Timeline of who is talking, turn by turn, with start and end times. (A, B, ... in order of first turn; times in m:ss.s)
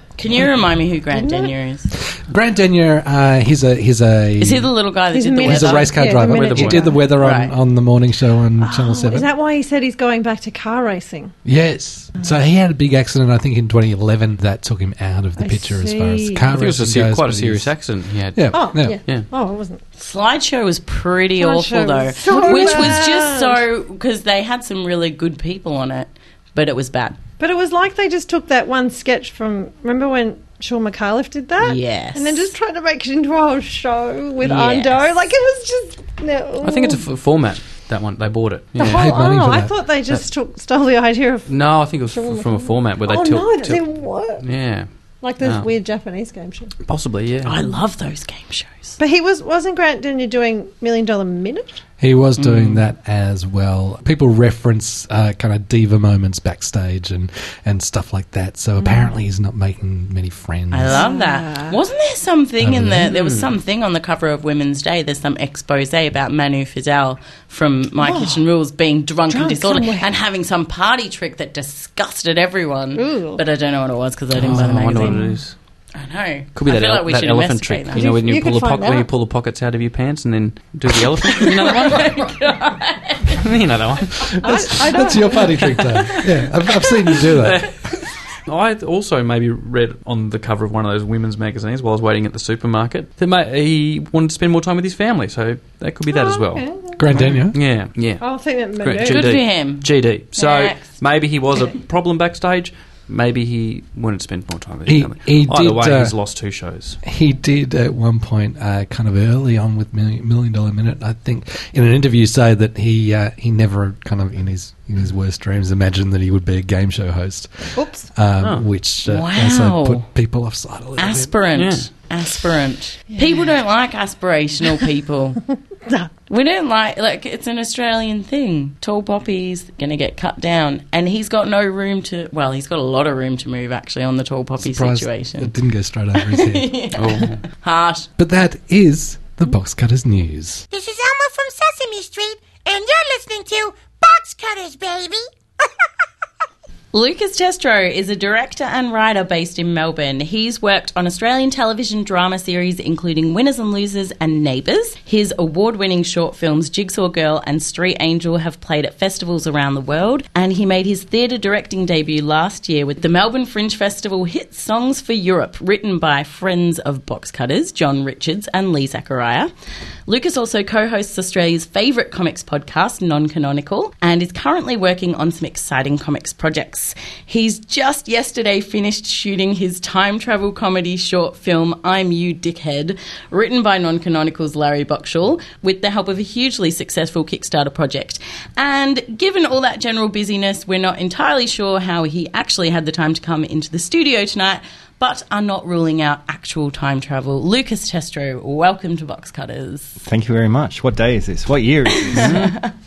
0:00.2-0:01.9 A
0:01.2-0:01.5 B
0:02.2-0:04.7 C
0:04.4-0:06.2 A
0:05.1-0:07.0 B
0:05.4-0:09.3 C
0:06.2-0:06.8 D
0:07.2-0:07.5 A
0:08.6-0:11.3 B
0:11.4-0:17.7 C
0:15.4-0:16.5 B
0:16.5-0:19.2 D
0:18.3-0:19.0 C
0:18.5-0:19.8 B
0:20.0-0:27.2 A
0:21.4-0:23.6 B
0:27.4-0:37.0 B
0:31.6-0:32.5 A
0:34.4-0:35.2 A
0:36.6-0:39.1 D
0:38.8-0:44.4 B
0:38.8-0:39.7 C
0:41.5-0:44.9 D
0:45.2-0:46.7 B
0:45.4-0:45.7 D
0:46.9-0:47.5 D
0:47.4-0:49.0 A
0:49.0-0:51.8 B
0:52.0-1:01.0 C
0:52.4-0:52.7 D
0:58.8-0:59.1 B
1:00.7-1:15.3 A
1:00.8-1:01.8 B
1:02.6-1:03.1 C
1:03.1-1:03.5 D
1:08.0-1:08.4 B
1:09.3-1:10.1 B
1:12.9-1:13.4 B
1:14.3-1:15.5 D
1:15.9-1:18.1 A
1:16.6-1:22.2 D
1:17.9-1:19.1 B
1:21.4-1:23.3 A
1:23.3-1:24.4 D
1:24.4-1:27.7 C
1:24.4-1:25.7 B
1:27.4-1:27.8 D
1:28.4-1:38.2 D
1:36.1-1:36.9 B
1:37.0-1:37.6 C
1:38.2-1:39.4 B
1:38.8-1:47.0 D
1:39.0-1:40.8 A
1:44.9-1:46.2 C
1:47.0-2:01.3 C
1:57.8-1:58.1 B
1:59.0-2:00.0 A
2:01.0-2:05.4 A
2:01.6-2:01.9 D
2:03.1-2:03.4 B
2:06.3-2:15.5 A
2:14.6-2:16.7 C
2:16.2-2:18.1 A
2:17.0-2:17.4 D
2:18.2-2:20.6 C
2:20.7-2:25.3 E
2:26.9-2:49.5 A
2:50.1-3:20.0 A
3:20.0-3:22.4 F
3:22.1-3:22.6 A
3:22.2-3:22.5 D